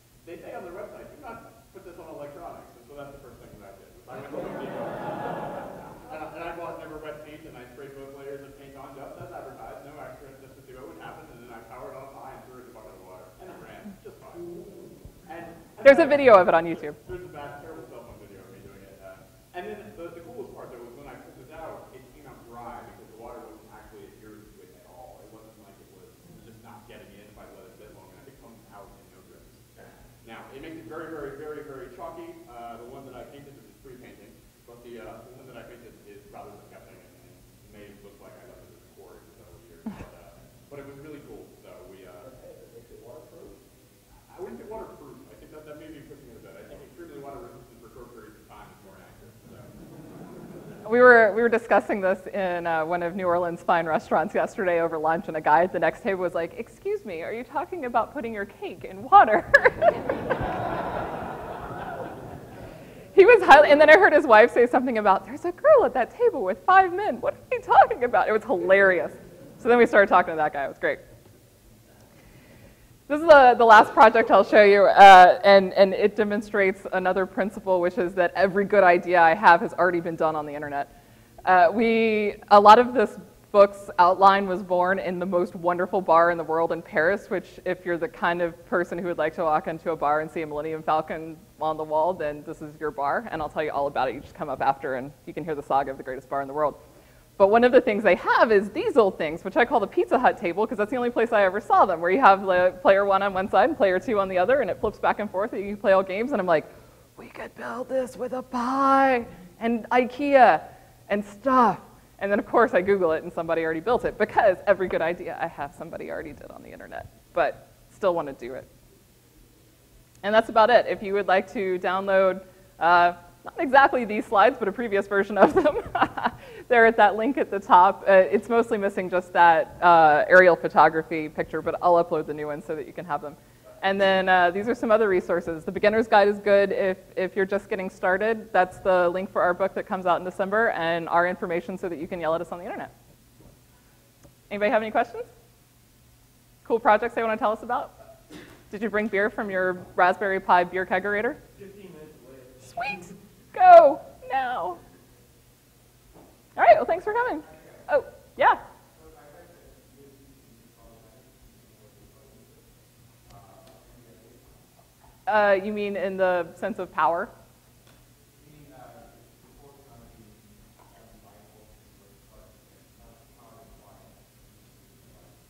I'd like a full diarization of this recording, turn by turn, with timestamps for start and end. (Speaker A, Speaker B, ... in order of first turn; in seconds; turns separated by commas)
Speaker A: 0.2-14.5, Speaker B: 14.5-14.9, Speaker A: 15.2-29.6, Speaker C: 15.8-17.0, Speaker A: 30.2-42.3, Speaker B: 42.2-43.7, Speaker A: 44.3-49.7, Speaker C: 50.9-60.2, Speaker C: 63.1-71.0, Speaker C: 73.1-80.9, Speaker C: 81.5-96.8, Speaker C: 97.4-118.7, Speaker C: 120.2-142.9, Speaker C: 144.5-145.3, Speaker C: 146.7-147.9, Speaker C: 148.7-151.4, Speaker B: 151.5-152.9, Speaker C: 152.7-154.8, Speaker C: 156.6-158.6, Speaker B: 157.4-157.9, Speaker B: 158.9-162.7, Speaker B: 163.2-164.7, Speaker C: 165.3-167.3, Speaker B: 168.3-175.4